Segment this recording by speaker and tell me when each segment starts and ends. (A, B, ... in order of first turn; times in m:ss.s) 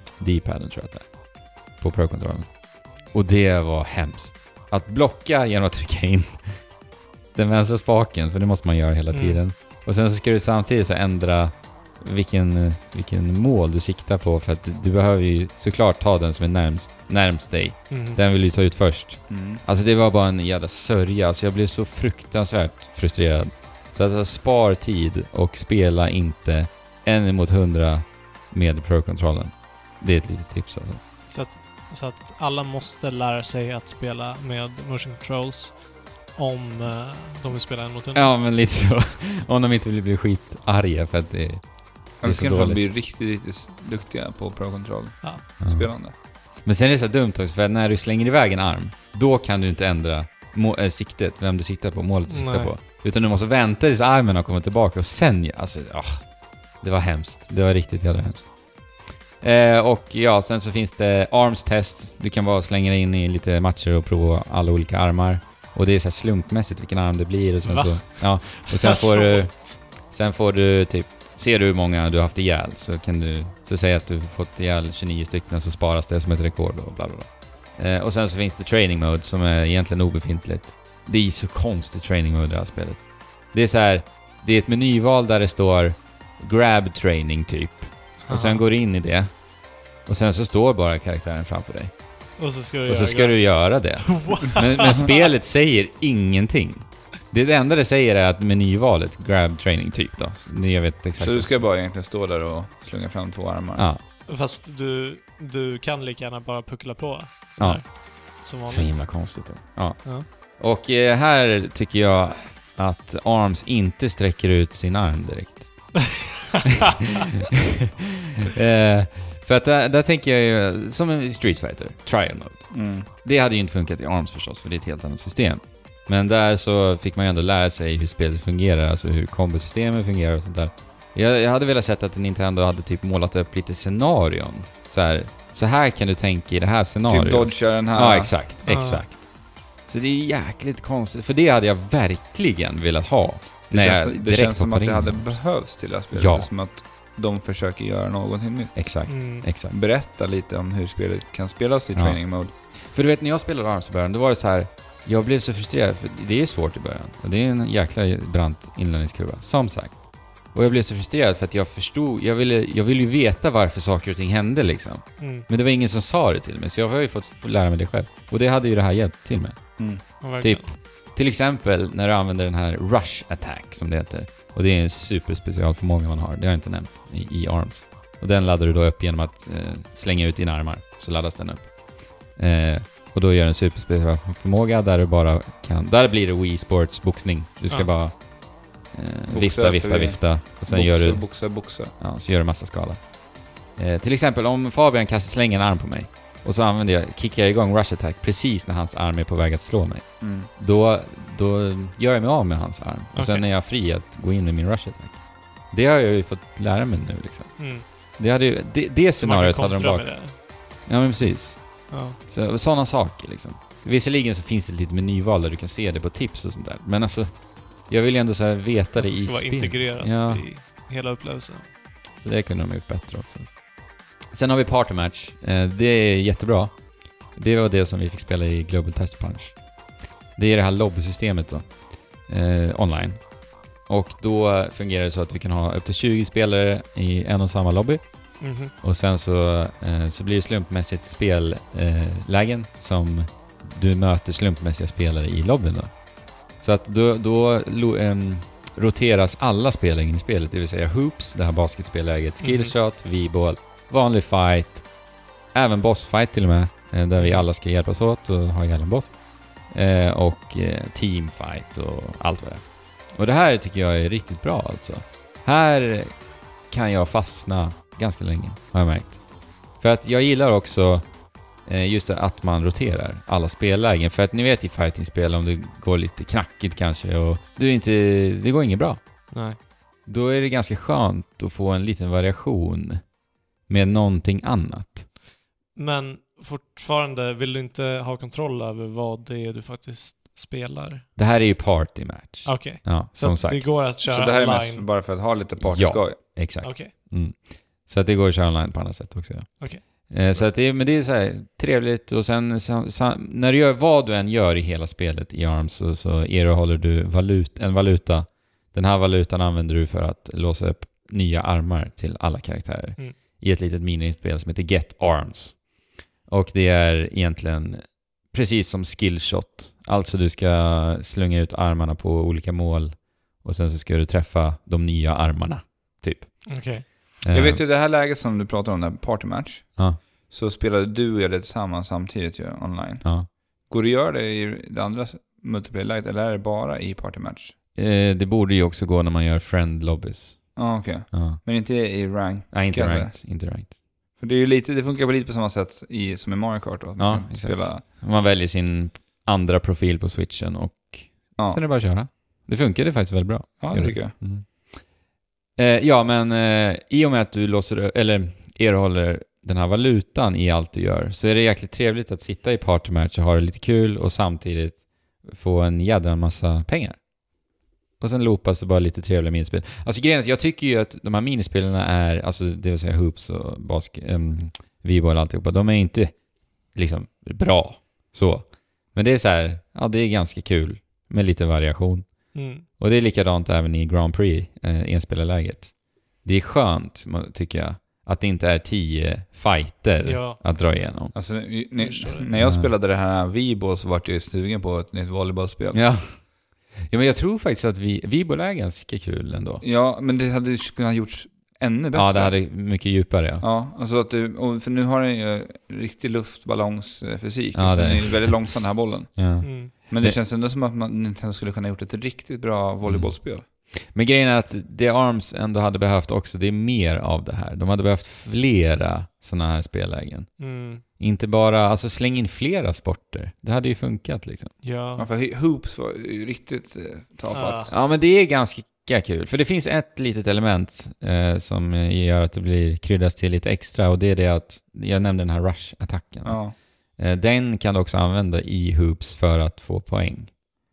0:00.2-0:01.1 A
0:01.8-0:02.5 A
0:03.1-0:06.6 A
0:07.3-0:31.0 A
0:09.1-0:09.4 B
0:17.9-0:18.2 B
0:19.3-0:19.6 C
0:31.3-0:35.8 B
0:36.3-0:38.3 B
0:38.1-0:41.6 A
0:42.2-0:42.8 A
0:42.2-0:46.1 C
0:45.6-0:45.9 A
0:46.6-0:56.2 A
0:52.3-0:52.7 B
0:56.8-0:58.5 A
0:59.4-1:23.0 A
1:07.6-1:09.8 B
1:23.5-1:29.3 A
1:28.2-1:28.6 B
1:30.0-1:31.9 A
1:32.4-1:35.3 B
1:32.9-1:41.5 A
1:41.2-1:43.8 C
1:43.8-1:44.0 A
1:44.2-1:49.1 B
1:47.6-1:56.0 A
1:56.2-1:56.8 B
1:58.4-2:19.2 A
2:02.7-2:03.1 C
2:17.1-2:18.3 C
2:18.6-2:19.0 B
2:19.8-2:25.4 A
2:23.7-2:28.7 C
2:26.1-2:26.5 A
2:28.7-2:29.8 A
2:29.1-2:29.4 B
2:29.7-2:32.5 C
2:32.9-2:39.9 A
2:40.5-2:49.6 A
2:45.2-2:45.5 B
2:50.2-2:50.7 B
2:50.4-3:01.8 A
3:02.3-3:08.2 A
3:08.9-3:13.0 A
3:09.3-3:11.9 C
3:13.8-3:25.2 A
3:20.2-3:20.5 C
3:23.1-3:23.4 B
3:25.7-3:40.4 A
3:27.6-3:27.8 B
3:29.2-3:30.4 B
3:31.9-3:32.2 B
3:39.0-3:41.7 B
3:42.2-3:43.5 A
3:44.3-3:46.7 A
3:47.3-3:49.6 A
3:50.4-3:51.7 A
3:52.2-3:53.2 A
3:53.9-3:58.0 A
3:58.4-3:58.7 B
3:58.8-4:05.9 A
4:06.6-4:14.8 A
4:12.4-4:12.7 B
4:15.5-4:19.1 A
4:17.2-4:17.4 B
4:19.7-4:26.1 A
4:26.7-4:29.2 A
4:29.8-4:31.1 A
4:31.6-4:39.0 A
4:39.3-4:39.6 B
4:40.1-4:43.0 A
4:43.7-4:45.1 A
4:45.7-4:51.0 B
4:51.2-4:53.8 A
4:52.4-4:54.8 B
4:54.0-4:56.2 C
4:55.6-5:15.7 A
4:56.6-4:56.9 B
4:59.6-5:00.4 B
5:16.3-5:26.6 A
5:26.5-5:26.8 B
5:27.2-5:27.6 A
5:27.3-5:33.1 C
5:33.7-5:37.5 C
5:37.8-5:41.4 A
5:40.6-5:43.1 C
5:42.5-5:43.8 A
5:44.2-5:47.8 C
5:47.0-5:54.5 A
5:53.6-5:54.2 C
5:55.6-6:07.0 A
6:08.0-6:16.1 A
6:16.7-6:22.1 A
6:22.3-6:22.6 B
6:22.8-6:25.7 A
6:26.2-6:31.1 A
6:30.0-6:30.4 B
6:31.1-6:35.8 C
6:31.8-6:32.3 B
6:32.4-6:32.7 A
6:35.7-6:36.3 A
6:36.9-6:39.6 A
6:39.6-6:42.4 C
6:41.9-6:43.4 A
6:43.4-6:53.4 C
6:47.5-6:48.6 A
6:49.2-6:50.2 A
6:49.4-6:49.7 B
6:52.8-6:53.2 A
6:53.9-7:04.5 A
7:00.4-7:00.8 B
7:04.6-7:05.1 B
7:05.0-7:07.7 C
7:07.3-7:07.7 B
7:07.7-7:20.4 A
7:16.2-7:16.5 C